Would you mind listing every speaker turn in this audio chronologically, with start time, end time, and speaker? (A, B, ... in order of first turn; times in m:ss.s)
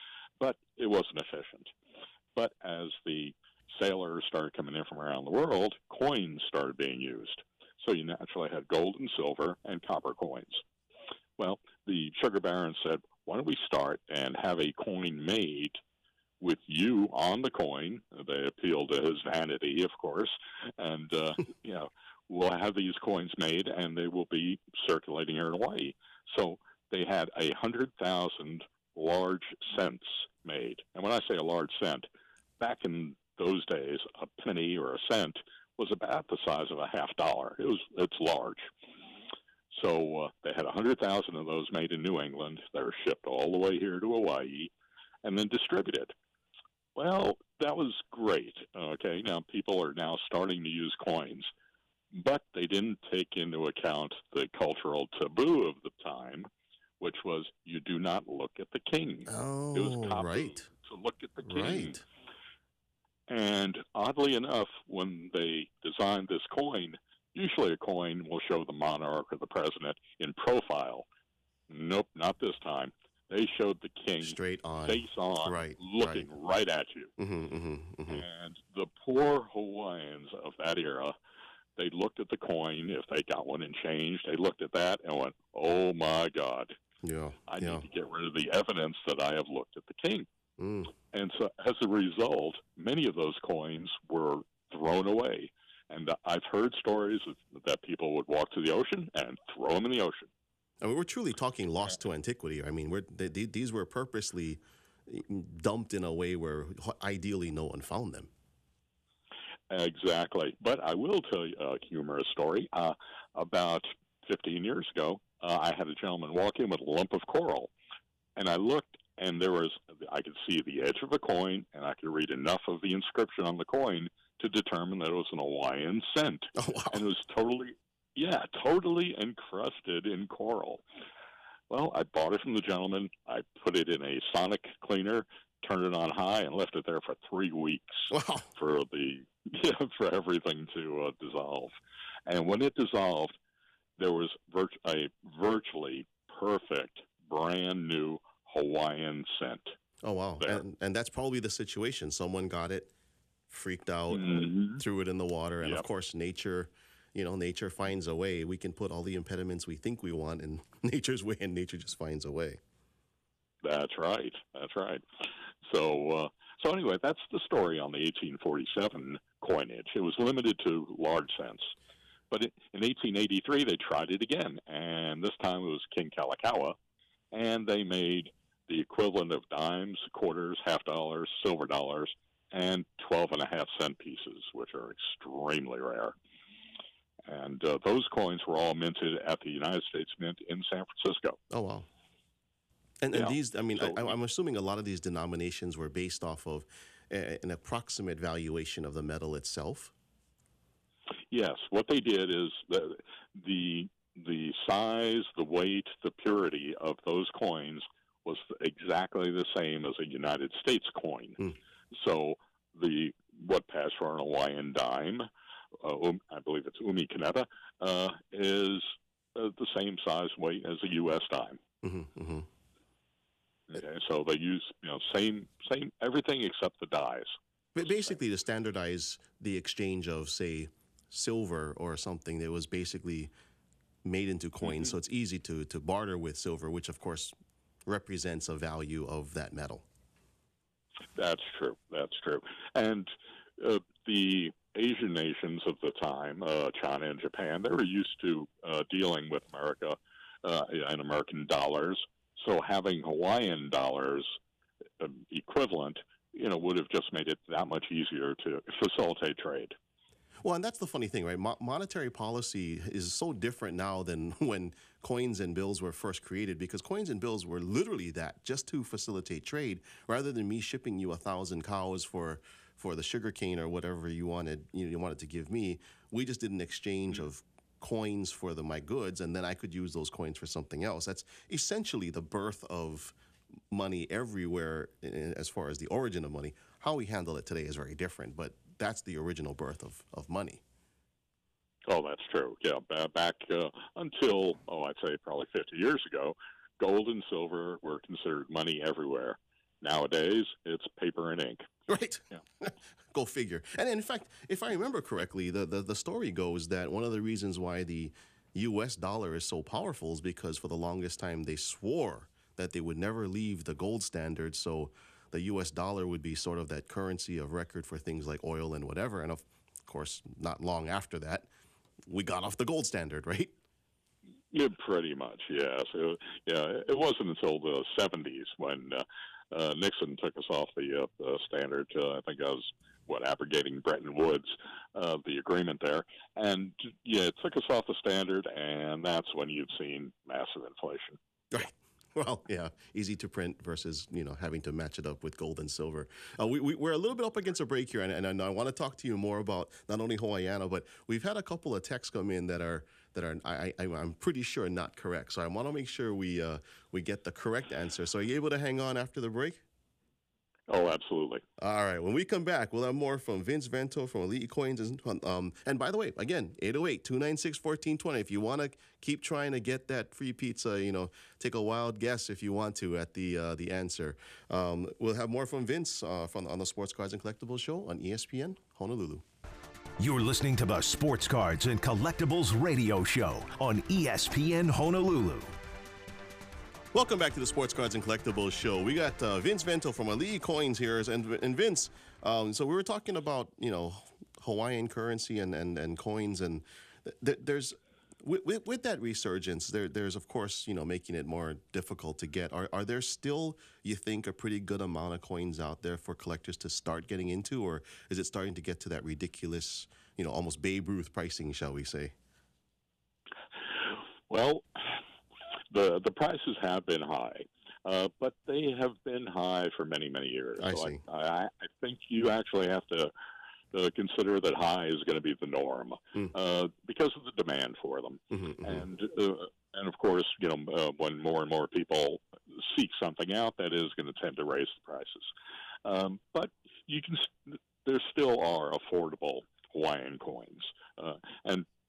0:00.4-0:01.7 A
0:02.3-0:10.6 A
0:11.4-0:15.8 A
0:16.4-0:32.1 A
0:32.6-0:38.7 A
0:39.7-0:44.7 A
0:45.2-0:46.1 A
0:47.0-0:51.5 A
0:52.1-0:56.5 A
0:57.0-1:02.0 A
0:59.3-1:00.7 B
1:01.4-1:02.0 B
1:03.3-1:11.1 A
1:11.7-1:17.1 A
1:14.2-1:16.3 B
1:17.2-1:18.2 B
1:18.1-1:21.1 A
1:21.8-1:26.8 A
1:27.0-1:27.8 B
1:27.5-1:30.3 A
1:30.6-1:30.9 B
1:31.1-1:40.3 A
1:40.8-1:48.3 B
1:49.7-1:57.7 A
1:58.4-2:10.8 A
2:06.6-2:07.0 B
2:11.7-2:21.7 A
2:18.1-2:18.5 B
2:22.3-2:23.3 A
2:24.0-2:29.8 A
2:30.0-2:32.9 B
2:33.5-2:42.6 B
2:34.1-2:34.8 A
2:43.6-2:51.7 A
2:52.3-2:56.8 A
2:57.3-3:06.1 A
3:07.3-3:11.4 A
3:11.5-3:11.9 B
3:13.0-3:19.9 B
3:13.1-3:14.1 A
3:21.3-3:35.3 A
3:35.8-3:41.6 A
3:41.8-3:42.5 B
3:43.7-3:48.1 A
3:47.7-3:53.3 B
3:54.0-3:57.3 B
3:54.6-3:54.9 A
3:57.8-3:59.8 B
4:01.2-4:14.4 A
4:15.0-4:19.7 A
4:20.4-4:43.1 B
4:43.7-4:50.6 B
4:51.9-5:01.6 A
5:01.9-5:21.5 B
5:22.1-5:23.5 B
5:24.5-5:41.2 A
5:41.5-5:59.6 B
6:00.7-6:01.4 A
6:01.6-6:19.2 B
6:20.0-6:25.5 C
6:26.9-6:52.1 B
6:53.7-6:55.0 A
6:55.7-7:03.1 A
7:00.6-7:01.0 B
7:03.7-7:15.3 A
7:08.3-7:08.8 B
7:15.8-7:21.6 A